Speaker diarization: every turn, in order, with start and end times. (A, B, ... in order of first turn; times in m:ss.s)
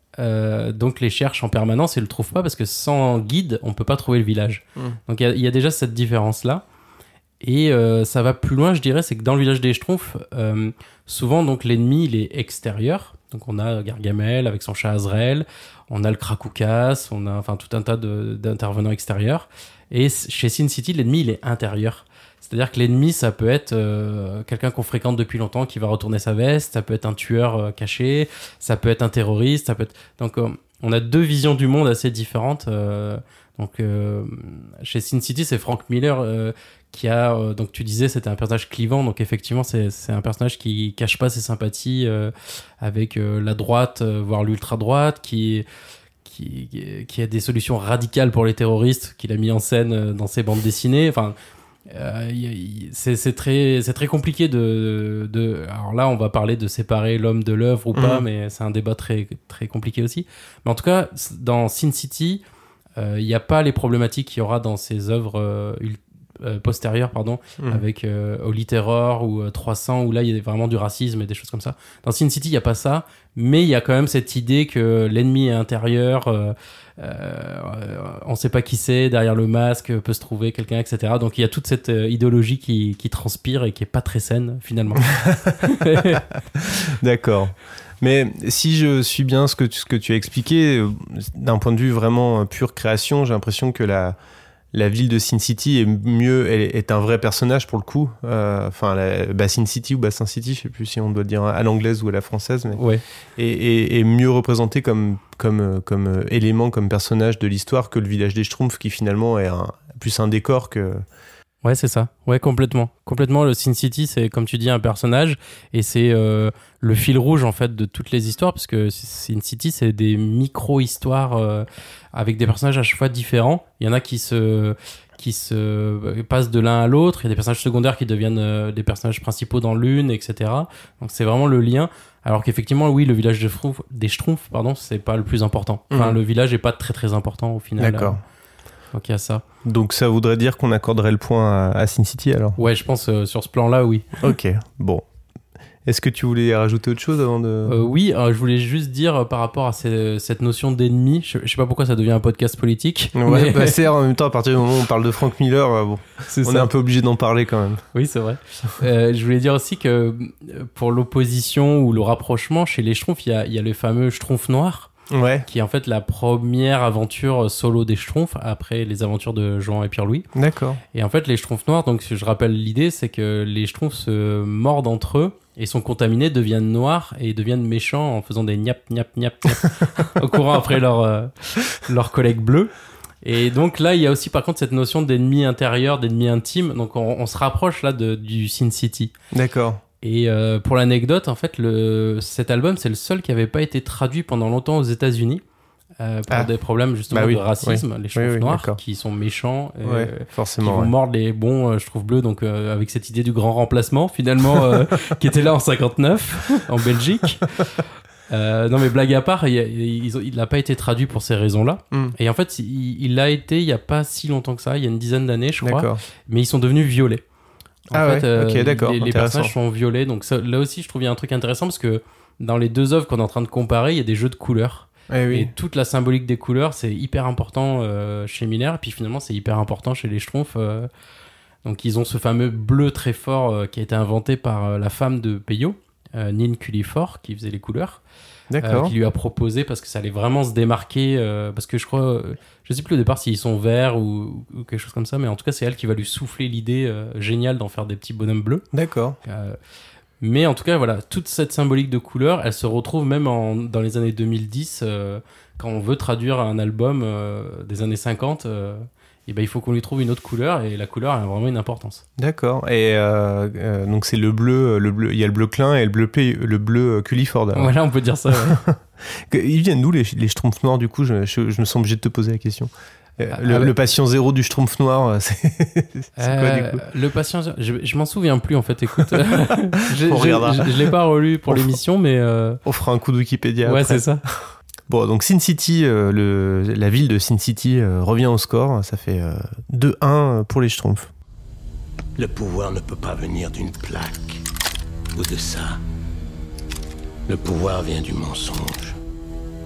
0:00.2-0:06.6 A
0:07.4-0:45.6 A
0:46.2-0:51.3 A
0:51.9-1:02.4 A
0:57.9-0:58.2 B
1:03.0-1:26.2 A
1:25.1-1:25.6 B
1:26.1-1:34.2 B
1:34.7-1:42.8 B
1:42.7-1:43.0 A
1:43.4-1:51.0 B
1:51.6-2:18.2 A
2:15.9-2:16.2 B
2:17.8-2:18.2 B
2:18.9-2:19.4 A
2:19.6-2:22.6 B
2:22.6-2:24.1 A
2:24.2-2:25.0 B
2:25.8-2:27.8 B
2:27.6-2:33.8 A
2:33.1-2:37.8 B
2:36.3-2:36.7 A
2:37.9-2:44.9 A
2:45.1-2:45.4 B
2:45.4-2:50.3 A
2:50.3-2:50.8 B
2:50.9-3:02.7 A
3:03.2-3:09.1 A
3:09.3-3:09.8 B
3:10.0-3:15.4 A
3:16.0-3:27.5 A
3:17.1-3:18.8 B
3:19.8-3:20.9 B
3:24.5-3:24.8 B
3:28.3-3:37.2 A
3:35.6-3:36.0 B
3:37.9-3:50.9 A
3:37.9-3:39.5 B
3:45.1-3:45.5 B
3:51.6-3:58.0 A
3:58.5-3:58.9 B
3:58.6-4:08.6 A
4:08.7-4:09.2 B
4:09.2-4:09.6 A
4:10.2-4:22.0 A
4:22.2-4:27.7 B
4:27.5-4:28.6 A
4:28.3-4:36.8 B
4:33.3-4:33.7 A
4:36.2-4:42.6 A
4:39.9-4:40.9 B
4:41.5-4:41.8 B
4:42.6-4:51.1 B
4:43.6-4:44.2 A
4:52.2-4:54.4 C
4:55.1-4:55.8 C
4:57.3-4:59.0 C